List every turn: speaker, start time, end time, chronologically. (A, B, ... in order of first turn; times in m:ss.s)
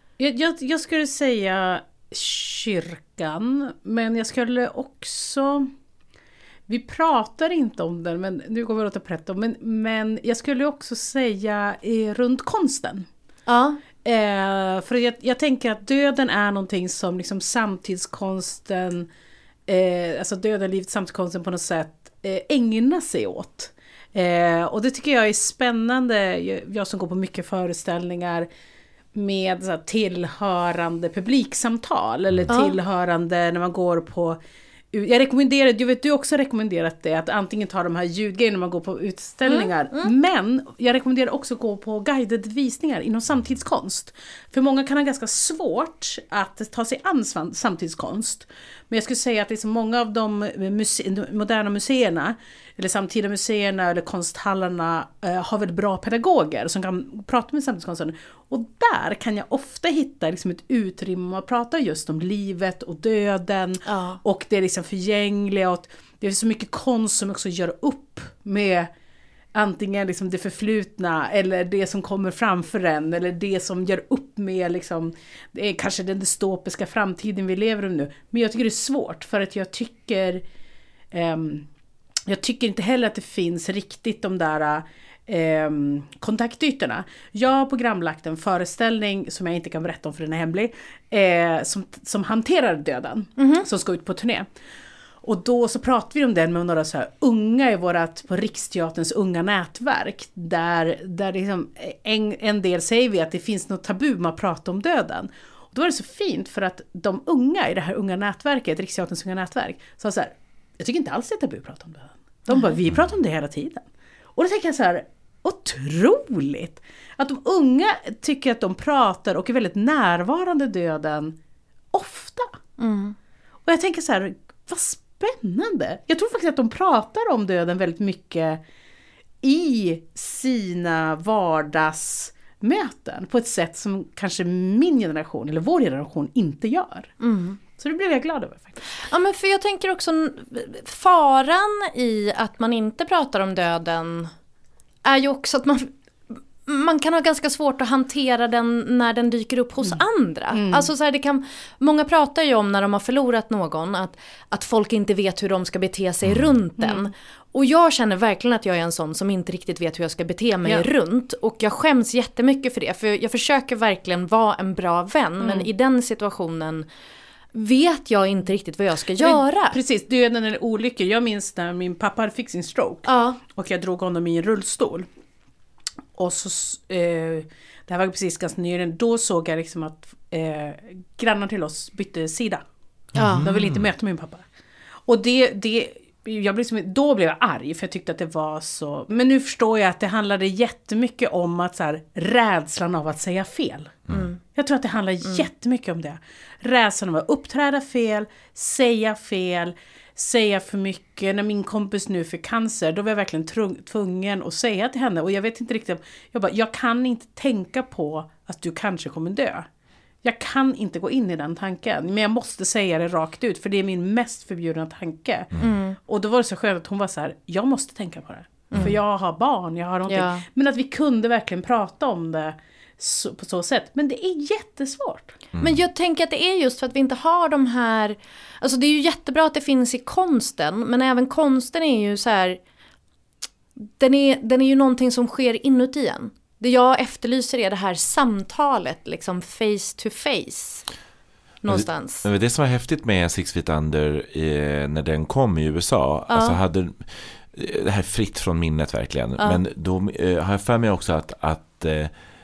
0:00.2-0:05.7 A
0:06.7-0:13.1 A
0:13.5-0:13.8 B
0:14.0-0:19.1 A
0:19.7-0:28.5 A
0:29.1-0:34.4 A
0:32.5-0:32.8 B
0:34.9-1:08.9 A
0:39.4-0:40.1 B
1:03.9-1:04.2 B
1:09.5-1:20.4 A
1:21.1-1:21.6 A
1:22.3-1:34.5 A
1:33.4-1:33.6 B
1:35.2-2:01.4 A
2:01.9-2:02.5 A
2:02.8-2:03.2 B
2:03.6-2:08.6 A
2:09.4-2:17.1 A
2:17.2-2:17.6 B
2:17.8-2:18.8 A
2:19.0-2:24.3 B
2:25.0-2:46.9 B
2:29.8-2:30.9 A
2:36.2-2:36.5 C
2:36.8-2:37.1 A
2:45.4-2:45.7 A
2:47.5-2:49.8 B
2:49.2-2:55.1 A
2:53.0-2:53.4 B
2:56.2-3:02.6 A
3:03.2-3:03.4 B
3:03.2-3:03.8 C
3:03.4-3:04.4 A
3:05.1-3:14.0 A
3:14.1-3:14.4 B
3:14.5-3:29.7 A
3:30.2-3:35.5 A
3:35.6-3:36.0 B
3:36.0-3:45.4 A
3:40.1-3:40.4 B
3:45.5-3:45.8 C
3:45.6-3:52.6 B
3:53.8-4:00.8 B
4:01.6-4:02.3 B
4:01.7-4:12.1 C
4:06.3-4:06.6 B